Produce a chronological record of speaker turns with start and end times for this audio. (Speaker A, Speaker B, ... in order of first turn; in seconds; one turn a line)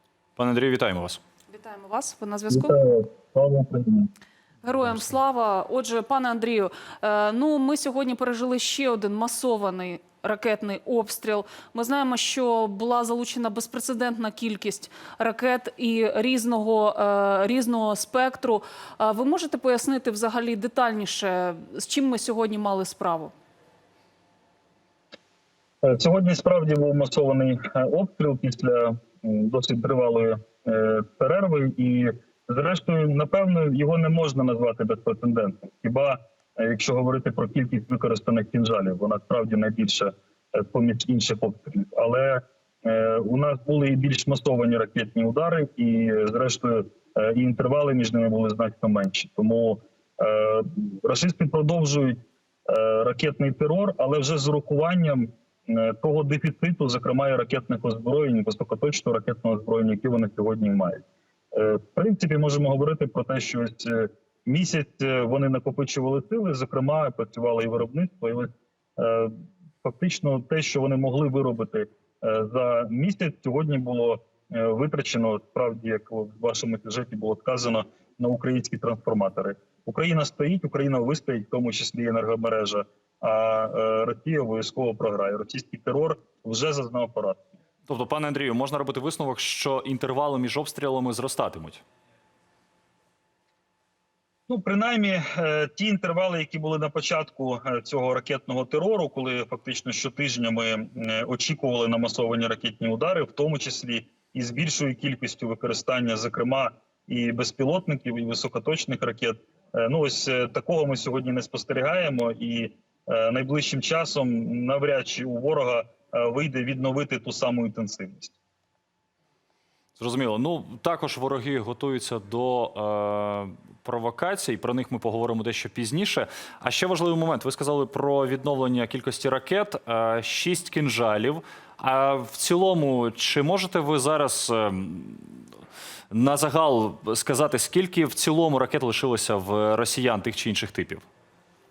Speaker A: 0.4-1.2
Speaker B: 1.5-2.7
Speaker C: 2.5-4.1
Speaker B: 4.6-23.3
Speaker C: 25.8-87.4
Speaker A: 87.9-91.8
Speaker C: 94.5-118.3
Speaker A: 120.0-135.4
Speaker A: 136.1-141.1